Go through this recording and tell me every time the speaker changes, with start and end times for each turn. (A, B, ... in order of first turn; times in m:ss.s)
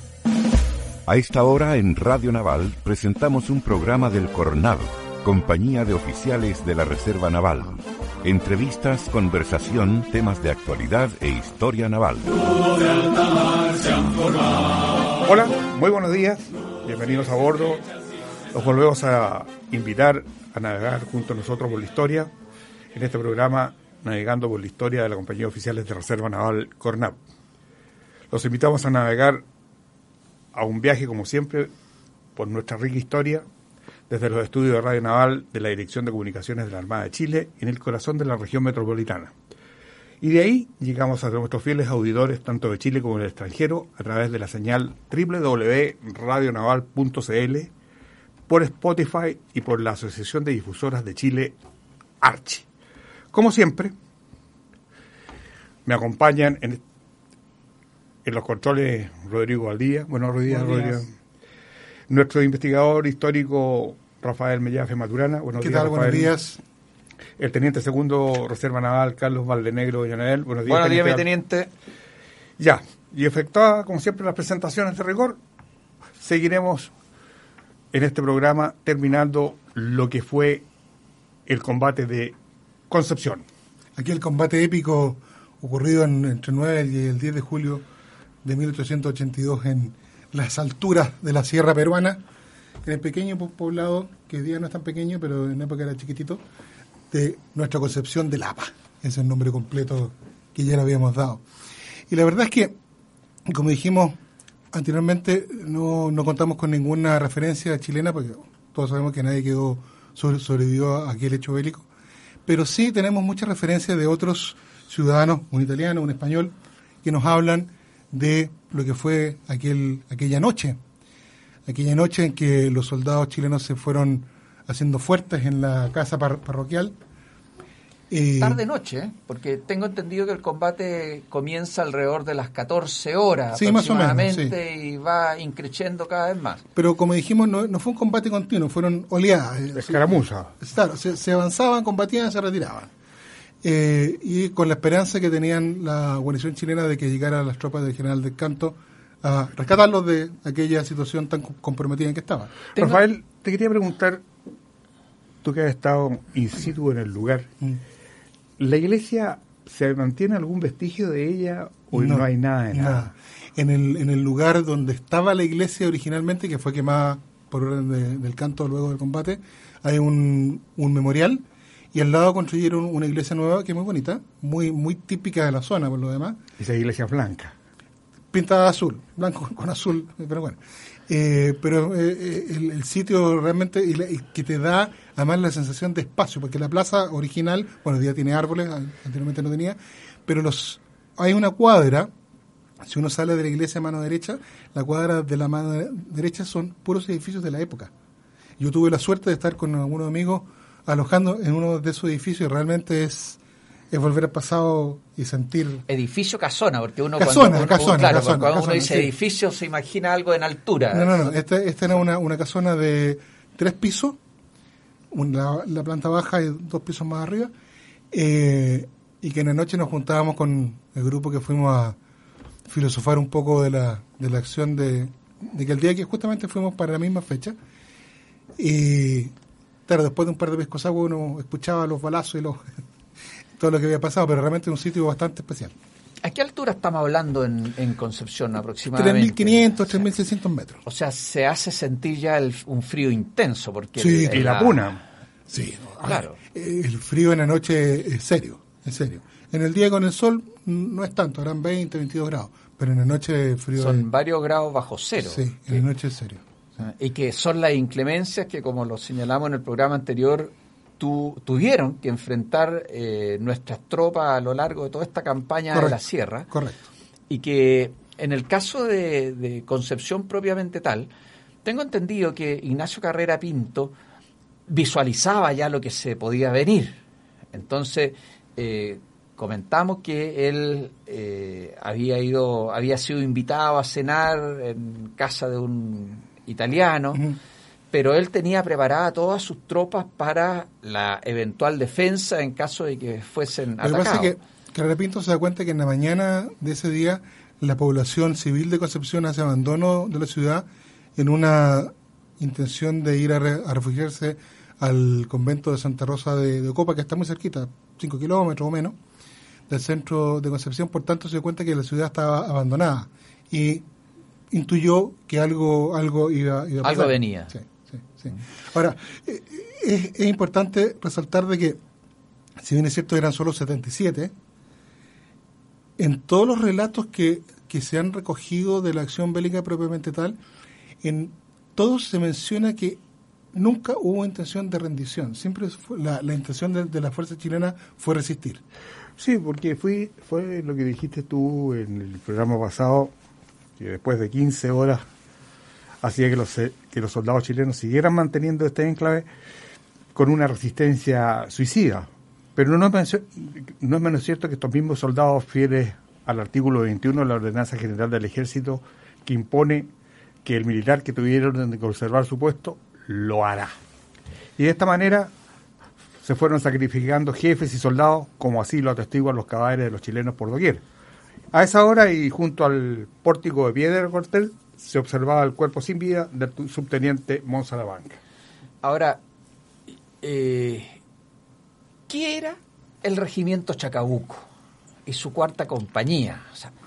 0:01.1-0:12.4 A
0:15.2-0:17.8 B
0:18.5-0:22.3 B
0:22.9-0:27.2 B
0:28.3-0:29.4 B
0:30.5-0:31.7 B
0:32.4-0:33.4 B
0:34.1-0:39.3 B
0:40.2-0:47.7 B
0:48.5-0:51.6 B
0:52.2-0:52.7 B
0:53.3-0:53.9 B
0:55.8-0:56.8 B
0:58.2-1:01.1 B
1:00.5-1:01.0 C
1:02.1-1:06.4 B
1:05.6-1:06.6 C
1:07.4-1:11.2 B
1:10.7-1:11.7 D
1:12.6-1:15.4 B
1:16.2-1:16.9 B
1:17.9-1:20.7 B
1:21.5-1:22.4 B
1:22.9-1:23.4 B
1:24.0-1:27.8 C
1:28.4-1:32.2 C
1:32.8-1:36.4 C
1:37.1-1:41.4 C
1:42.1-1:42.8 C
1:43.5-1:44.2 C
1:44.7-1:51.9 C
1:52.5-2:00.8 C
2:01.7-2:07.0 C
2:08.1-2:08.6 C
2:08.4-2:16.6 D
2:13.6-2:14.6 C
2:16.8-2:20.0 C
2:19.8-2:20.5 B
2:20.6-2:22.9 C
2:23.6-2:32.6 C
2:32.8-2:34.2 B
2:35.4-2:37.5 B
2:38.6-2:43.1 B
2:41.9-2:56.4 C
2:56.6-2:57.5 B
2:58.3-3:12.1 C
3:12.8-3:17.9 C
3:18.6-3:23.4 C
3:23.9-3:25.8 C
3:25.9-3:31.3 D
3:27.2-3:29.1 C
3:30.9-3:34.2 C
3:35.1-3:37.5 C
3:38.1-3:42.0 C
3:42.7-3:47.6 C
3:48.6-3:49.3 C
3:49.9-3:52.7 C
3:53.6-3:55.8 C
3:56.2-4:00.1 D
3:58.9-4:00.8 C
4:00.8-4:05.0 D
4:04.0-4:04.4 C
4:04.3-4:05.0 B
4:05.5-4:14.1 C
4:06.0-4:06.4 D
4:13.8-4:15.8 D
4:15.2-4:16.4 C
4:16.8-4:26.5 D
4:25.7-4:26.8 C
4:27.3-4:31.1 D
4:31.6-4:33.9 D
4:34.7-4:37.0 D
4:37.5-4:47.2 D
4:47.9-4:54.4 D
4:53.8-5:09.0 C
5:09.7-5:13.8 C
5:14.5-5:21.8 C
5:16.8-5:17.5 D
5:22.6-5:24.3 C
5:26.0-5:30.4 C
5:31.0-5:33.0 C
5:33.5-5:38.6 C
5:39.2-5:43.1 B
5:43.8-5:45.1 B
5:46.0-5:49.3 B
5:50.2-5:59.9 B
6:00.4-6:03.8 B
6:04.6-6:05.3 B
6:06.2-6:10.8 B
6:11.5-6:18.2 B
6:18.8-6:19.2 D
6:20.2-6:21.0 D
6:22.1-6:24.5 D
6:25.1-6:26.7 D